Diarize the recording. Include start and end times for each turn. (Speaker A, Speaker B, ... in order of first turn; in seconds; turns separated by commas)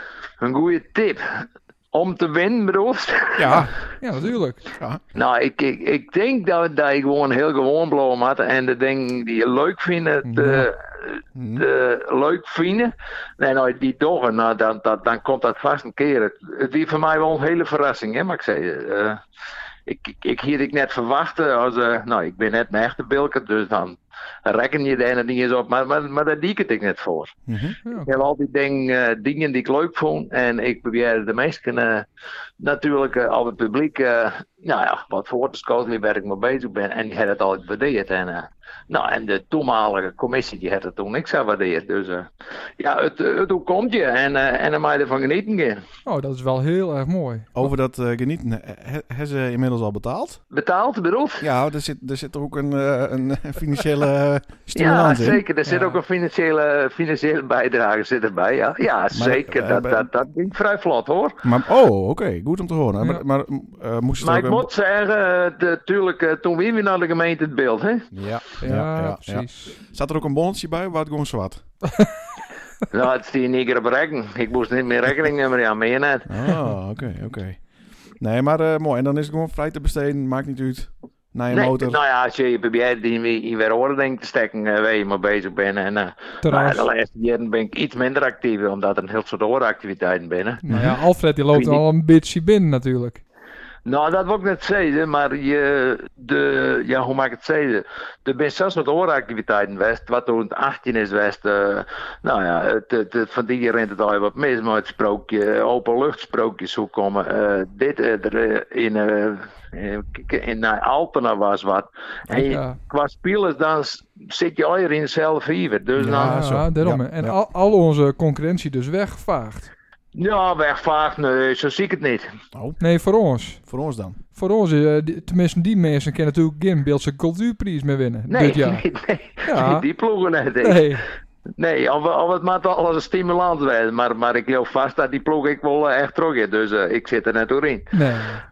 Speaker A: 0.4-3.6, Speaker B: 3.4-3.8, Speaker C: 3.5-4.7, Speaker A: 5.1-19.2, Speaker C: 10.2-10.7, Speaker B: 11.3-11.7, Speaker A: 19.9-27.4, Speaker B: 27.5-27.8, Speaker C: 27.9-28.2, Speaker A: 28.1-32.1, Speaker A: 32.6-45.8, Speaker C: 46.0-47.7, Speaker B: 47.5-50.4, Speaker A: 50.5-51.5, Speaker B: 51.4-55.4, Speaker A: 54.8-61.4, Speaker C: 55.6-56.0, Speaker B: 59.1-60.1, Speaker B: 61.4-64.7, Speaker A: 64.2-68.1, Speaker B: 68.1-71.7, Speaker C: 68.6-69.8, Speaker A: 72.9-76.3, Speaker B: 76.3-77.7, Speaker B: 78.2-82.0, Speaker A: 81.5-90.7, Speaker C: 86.4-86.9, Speaker C: 90.6-93.2, Speaker B: 90.7-91.0, Speaker A: 91.5-91.8, Speaker A: 93.9-116.4, Speaker C: 112.5-112.8, Speaker B: 116.0-117.4, Speaker C: 116.2-119.7, Speaker A: 120.2-122.3, Speaker B: 122.5-122.8, Speaker C: 122.8-123.7, Speaker B: 123.7-124.2, Speaker C: 124.2-128.8, Speaker A: 128.3-131.0, Speaker C: 129.5-129.9, Speaker C: 130.6-131.1, Speaker A: 131.6-137.9, Speaker C: 137.9-138.4